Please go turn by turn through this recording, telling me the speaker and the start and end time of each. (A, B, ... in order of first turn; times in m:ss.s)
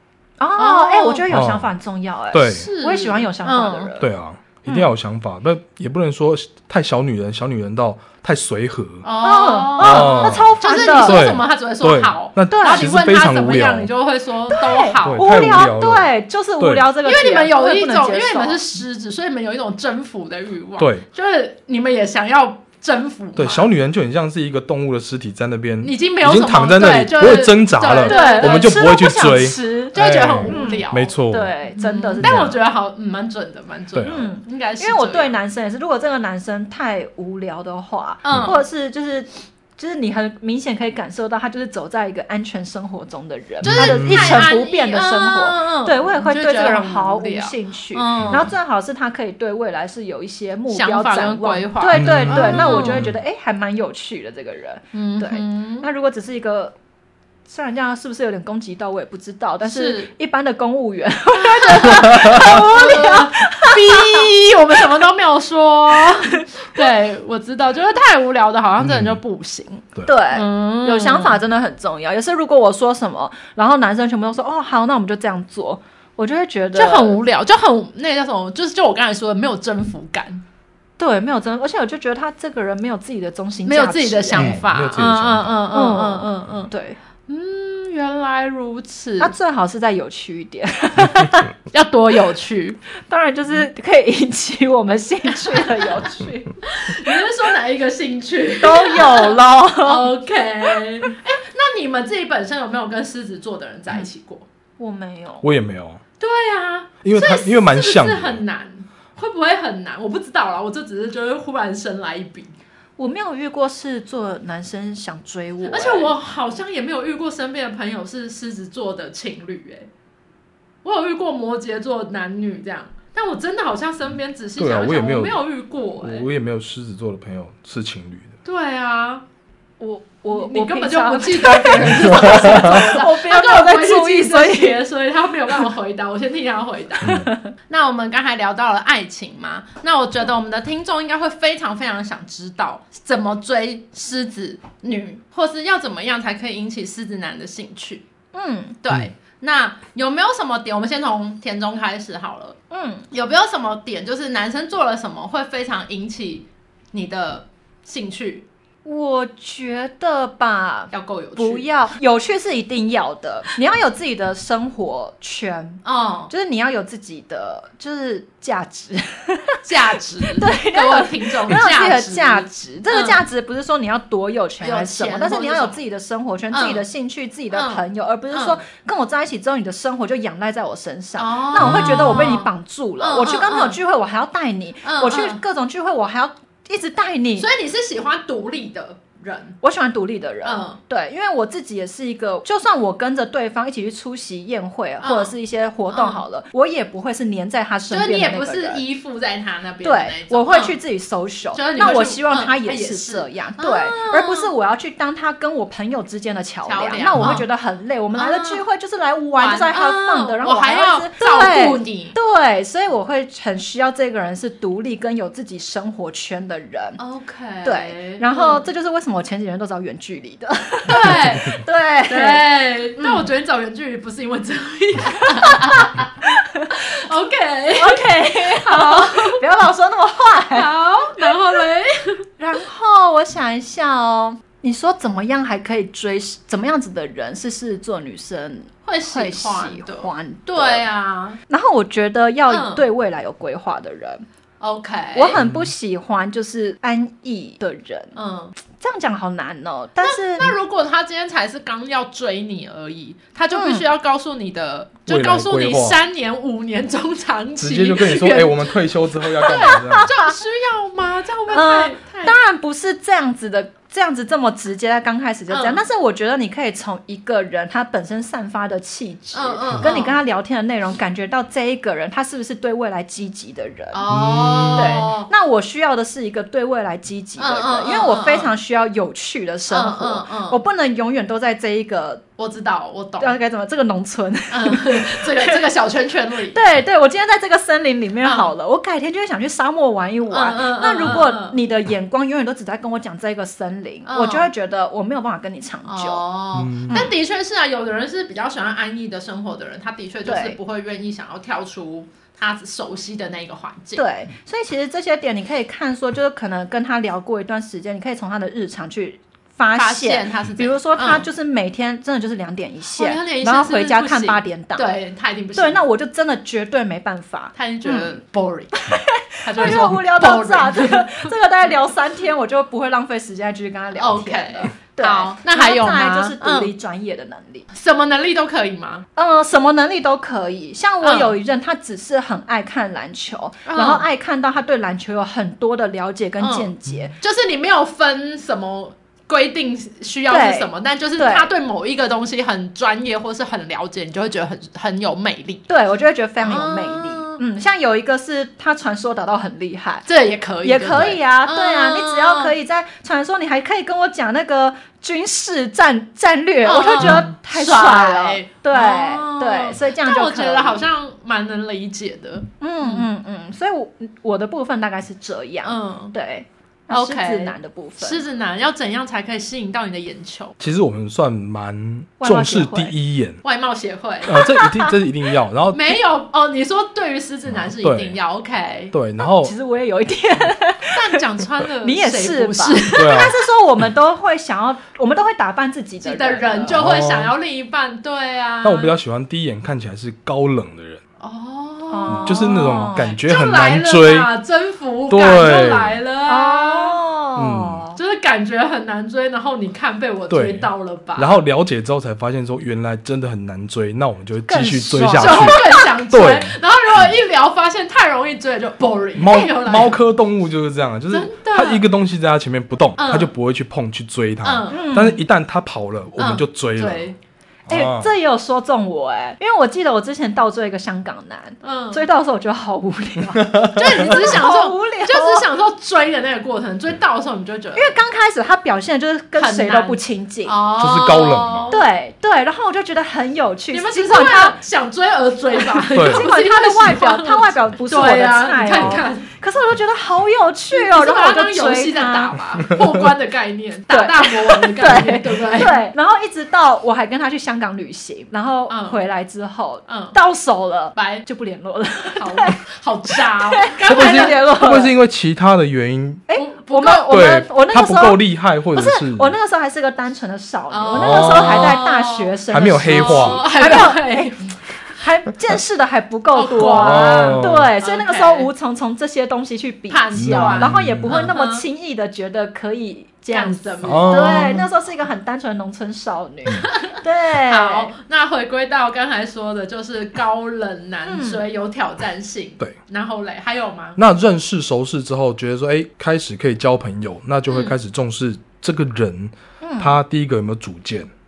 0:00.4-0:04.1 A
0:00.6-0:01.3 B
0:01.3-0:01.7 C
0:02.3-0:02.7 C
0:02.4-0:03.9 B
0:04.0-0:09.1 C
0:09.0-0:15.4 B
0:09.2-0:11.3 A
0:09.8-0:13.9 C
0:12.5-0:12.9 A
0:14.5-0:18.6 A
0:15.0-0:16.9 C
0:17.0-0:23.7 B
0:20.8-0:21.1 C
0:23.4-0:31.5 C
0:25.8-0:28.8 B
0:28.0-0:32.5 A
0:29.9-0:31.2 B
0:31.7-0:35.3 B
0:32.2-0:32.6 C
0:33.9-0:34.3 C
0:34.0-0:56.8 A
0:38.2-0:38.6 B
0:38.3-0:38.5 C
0:43.6-0:44.5 C
0:43.6-0:48.5 B
0:48.2-0:48.5 C
0:50.7-0:53.1 B
0:51.9-0:53.2 C
0:54.9-0:55.9 B
0:57.5-1:04.3 A
0:59.6-1:00.1 B
1:01.3-1:11.4 B
1:02.1-1:02.4 C
1:06.4-1:06.8 A
1:08.8-1:09.2 C
1:10.1-1:17.2 A
1:16.8-1:20.4 B
1:21.0-1:24.6 A
1:23.7-1:26.7 B
1:24.4-1:25.7 C
1:25.7-1:27.0 A
1:27.3-1:29.3 B
1:29.2-1:31.5 A
1:31.7-1:32.8 B
1:33.1-1:36.6 A
1:36.6-1:44.5 B
1:38.6-1:40.1 A
1:44.8-1:45.5 A
1:45.4-1:46.0 C
1:46.2-1:52.5 B
1:47.0-1:48.4 C
1:53.0-1:56.1 A
1:55.7-1:59.9 B
2:00.8-2:06.3 B
2:04.6-2:05.4 C
2:06.0-2:08.3 C
2:08.4-2:09.2 B
2:09.8-2:14.9 A
2:10.3-2:28.0 B
2:12.1-2:12.6 C
2:17.0-2:17.5 A
2:28.3-2:28.8 A
2:28.8-2:32.6 B
2:32.7-2:33.1 A
2:33.1-2:38.4 B
2:38.8-2:49.6 A
2:40.9-2:41.7 B
2:45.8-2:46.3 B
2:49.6-2:53.2 B
2:50.2-3:07.5 A
2:54.6-2:55.8 B
2:56.5-2:56.8 B
2:57.5-2:58.6 B
3:01.2-3:03.8 B
3:01.6-3:02.0 C
3:04.8-3:05.4 B
3:07.4-3:09.6 B
3:09.6-3:18.8 A
3:10.4-3:10.8 B
3:15.0-3:15.3 B
3:15.9-3:16.2 B
3:17.9-3:20.8 B
3:19.8-3:37.0 A
3:21.5-3:24.5 B
3:26.7-3:27.4 B
3:27.2-3:27.4 C
3:28.2-3:28.6 B
3:29.4-3:32.2 B
3:37.0-3:38.7 B
3:37.6-3:43.2 A
3:40.9-3:46.1 B
3:45.2-3:47.0 A
3:46.7-3:49.4 B
3:47.8-3:51.4 A
3:50.5-3:52.3 B
3:52.4-4:00.8 A
3:58.9-4:01.4 B
4:01.5-4:04.2 A
4:02.5-4:02.8 B
4:04.6-4:05.4 B
4:05.1-4:08.2 A
4:05.4-4:05.7 C
4:08.2-4:08.6 B
4:08.7-4:10.6 A
4:10.0-4:22.4 B
4:13.5-4:13.9 A
4:15.1-4:16.0 C
4:17.6-4:20.1 C
4:19.5-4:20.3 A
4:21.5-4:34.1 A
4:25.5-4:25.8 B
4:29.3-4:30.2 B
4:33.9-4:35.3 B
4:34.1-4:35.0 C
4:34.7-4:42.2 A
4:37.4-4:38.5 B
4:39.7-4:40.6 B
4:42.4-4:43.3 B
4:43.2-4:45.6 A
4:44.5-4:46.6 B
4:46.5-4:56.2 A
4:48.2-4:48.5 B
4:50.3-4:51.6 B
4:54.1-4:54.5 B
4:55.9-5:04.0 B
4:56.6-4:57.1 C
4:56.9-4:57.2 A
5:00.2-5:00.6 A
5:04.0-5:14.9 A
5:09.8-5:11.2 B
5:13.0-5:15.8 B
5:15.6-5:18.2 A
5:17.6-5:18.9 B
5:18.7-5:27.7 A
5:19.4-5:21.3 B
5:24.0-5:26.7 B
5:27.7-5:29.1 B
5:29.2-5:37.1 A
5:31.0-5:31.4 B
5:33.7-5:34.0 B
5:36.4-5:45.7 B
5:40.3-5:41.5 A
5:45.7-5:50.0 A
5:46.4-5:47.4 B
5:50.1-5:52.5 B
5:50.6-6:00.9 A
5:56.6-6:03.1 B
6:02.6-6:08.2 A
6:05.6-6:06.1 B
6:06.9-6:10.6 B
6:10.6-6:13.4 C
6:12.2-6:13.0 A
6:13.4-6:14.4 B
6:14.2-6:16.0 C
6:14.4-6:14.9 A
6:15.7-6:18.9 B
6:17.8-6:18.2 C
6:18.9-6:19.5 C
6:19.2-6:21.2 A
6:20.9-6:23.3 B
6:21.8-6:26.8 A
6:23.0-6:23.4 C
6:26.0-6:28.9 B
6:26.7-6:27.4 C
6:28.6-6:31.0 C
6:31.2-6:37.0 B
6:31.9-6:33.1 A
6:32.1-6:34.3 C
6:35.1-6:36.0 C
6:36.3-6:38.0 A
6:37.4-6:37.8 C
6:38.0-6:41.4 B
6:40.3-6:46.6 C
6:44.5-6:45.8 A
6:45.2-6:50.0 B
6:49.2-6:57.1 C
6:51.1-6:51.9 B
6:53.0-6:53.3 B
6:54.4-6:55.0 B
6:54.7-6:55.2 A
6:56.2-6:57.2 B
6:57.7-6:58.1 C
6:57.7-7:05.5 A
7:01.6-7:02.1 B
7:03.7-7:08.0 B
7:07.8-7:10.6 A
7:09.4-7:11.8 B
7:10.8-7:11.7 C
7:11.7-7:14.6 A
7:13.7-7:19.3 B
7:15.6-7:22.4 A
7:16.0-7:16.3 C
7:20.7-7:25.8 B
7:23.9-7:34.9 A
7:28.7-7:29.0 B
7:29.9-7:30.2 B
7:31.0-7:31.2 B
7:32.2-7:34.7 B
7:33.9-7:36.3 C
7:36.3-7:38.2 A
7:36.4-7:37.3 B
7:37.1-7:39.4 C
7:38.7-7:57.9 A
7:40.7-7:44.6 B
7:40.9-7:41.8 C
7:42.5-7:43.4 C
7:46.4-7:48.5 B
7:46.6-7:47.7 C
7:49.9-7:51.6 B
7:50.2-7:51.3 C
7:53.3-7:54.7 B
7:53.8-7:54.6 C
7:56.5-8:04.0 B
8:01.1-8:01.4 A
8:04.0-8:11.1 C
8:07.5-8:07.7 B
8:09.6-8:10.0 A